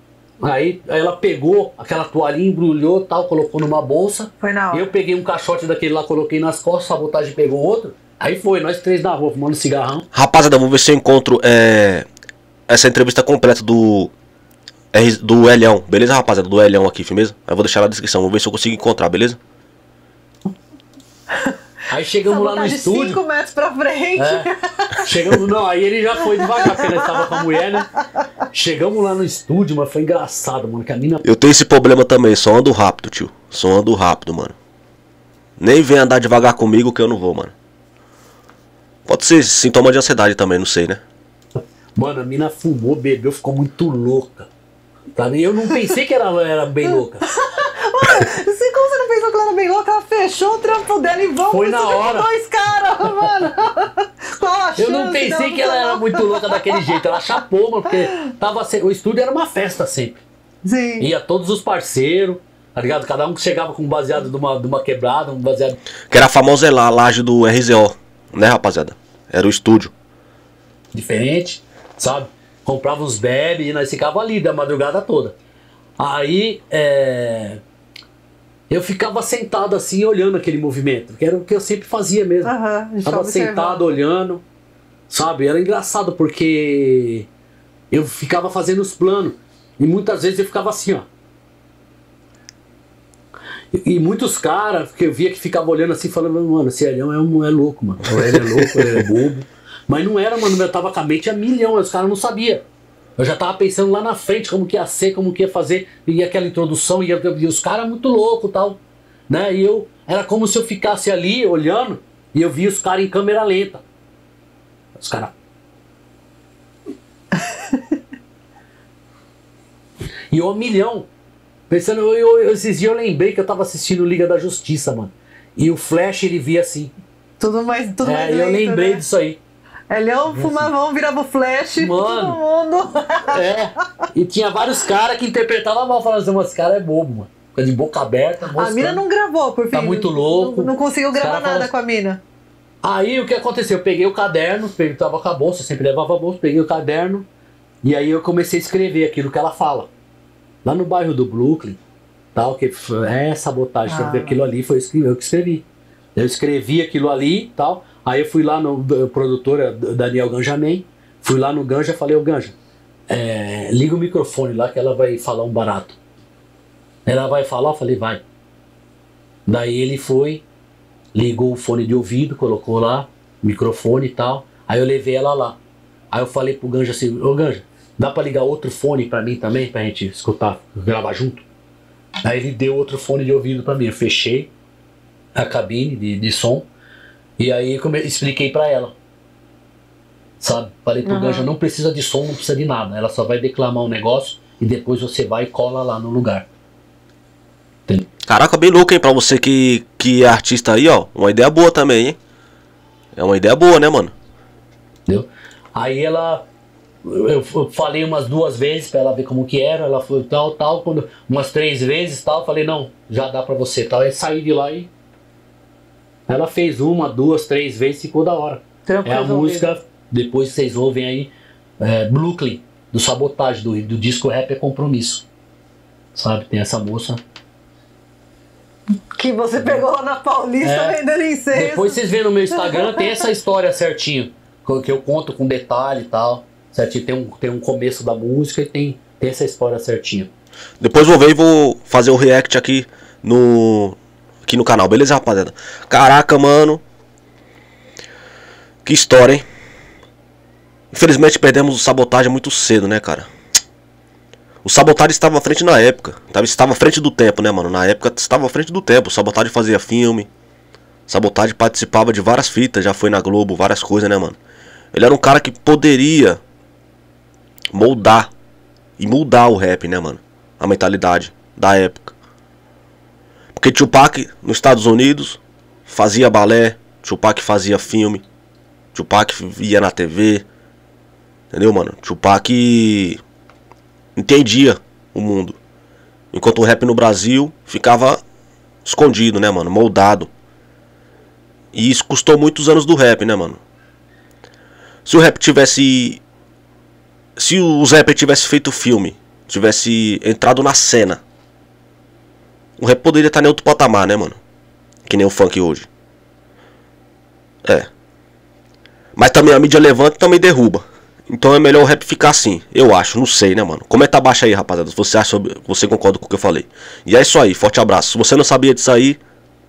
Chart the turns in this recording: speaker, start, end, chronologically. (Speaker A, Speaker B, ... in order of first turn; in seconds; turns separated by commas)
Speaker A: 0.4-10.1, Speaker B: 4.4-4.9, Speaker C: 10.1-12.1, Speaker C: 12.7-14.1, Speaker C: 14.9-19.4, Speaker A: 21.9-23.2, Speaker B: 22.2-25.1, Speaker A: 24.1-24.5, Speaker A: 25.0-27.9, Speaker B: 26.3-27.6, Speaker A: 28.5-31.2, Speaker C: 31.2-34.5, Speaker C: 35.6-37.5, Speaker C: 39.0-41.0, Speaker A: 42.0-44.5, Speaker A: 45.1-47.2, Speaker B: 47.2-57.0, Speaker A: 51.5-52.3, Speaker A: 53.0-53.3, Speaker A: 54.8-60.2, Speaker B: 60.6-61.1, Speaker A: 61.0-65.8, Speaker C: 66.1-69.9, Speaker A: 70.9-75.4, Speaker A: 76.0-77.6, Speaker A: 78.7-82.5, Speaker B: 82.4-84.0, Speaker A: 83.0-84.4, Speaker A: 85.1-87.3, Speaker A: 87.9-91.1, Speaker A: 93.7-102.6, Speaker C: 98.1-99.0, Speaker A: 103.2-113.8, Speaker A: 115.0-115.3, Speaker B: 117.4-117.8, Speaker A: 120.3-121.1, Speaker A: 121.7-126.9, Speaker B: 127.4-129.0, Speaker A: 128.0-129.4, Speaker B: 129.9-133.5, Speaker A: 130.3-130.7, Speaker A: 131.8-132.4, Speaker A: 133.3-139.0, Speaker B: 138.5-142.2, Speaker A: 139.7-141.7, Speaker A: 142.8-147.3, Speaker A: 147.8-149.9, Speaker A: 150.6-151.8, Speaker A: 152.3-155.6, Speaker B: 153.8-154.4, Speaker A: 156.2-162.6, Speaker A: 163.1-166.0, Speaker A: 167.1-168.2, Speaker A: 169.4-170.4, Speaker A: 171.1-175.6, Speaker A: 176.1-181.4, Speaker A: 182.2-184.5, Speaker A: 185.3-186.7, Speaker A: 187.4-188.9, Speaker A: 190.4-196.5, Speaker B: 191.0-191.5, Speaker C: 198.3-202.2, Speaker C: 203.2-204.1, Speaker A: 205.1-206.4, Speaker A: 207.0-214.9, Speaker A: 216.3-225.3, Speaker B: 218.8-219.7, Speaker A: 226.1-227.2, Speaker B: 228.9-232.0, Speaker A: 230.6-231.0, Speaker A: 231.5-240.3, Speaker B: 232.5-233.2, Speaker C: 240.8-246.8, Speaker C: 248.8-249.4, Speaker C: 250.9-253.3, Speaker C: 254.6-260.3, Speaker C: 261.1-264.4, Speaker C: 264.9-266.4, Speaker C: 267.7-268.3, Speaker C: 269.0-272.1, Speaker C: 273.5-278.2, Speaker C: 278.9-280.4, Speaker C: 281.5-283.2, Speaker C: 284.1-285.6, Speaker C: 286.3-288.2, Speaker C: 288.8-290.3, Speaker C: 291.7-293.6, Speaker C: 295.0-296.2, Speaker C: 297.4-301.2, Speaker C: 302.8-304.4, Speaker C: 305.1-305.9, Speaker C: 309.1-319.2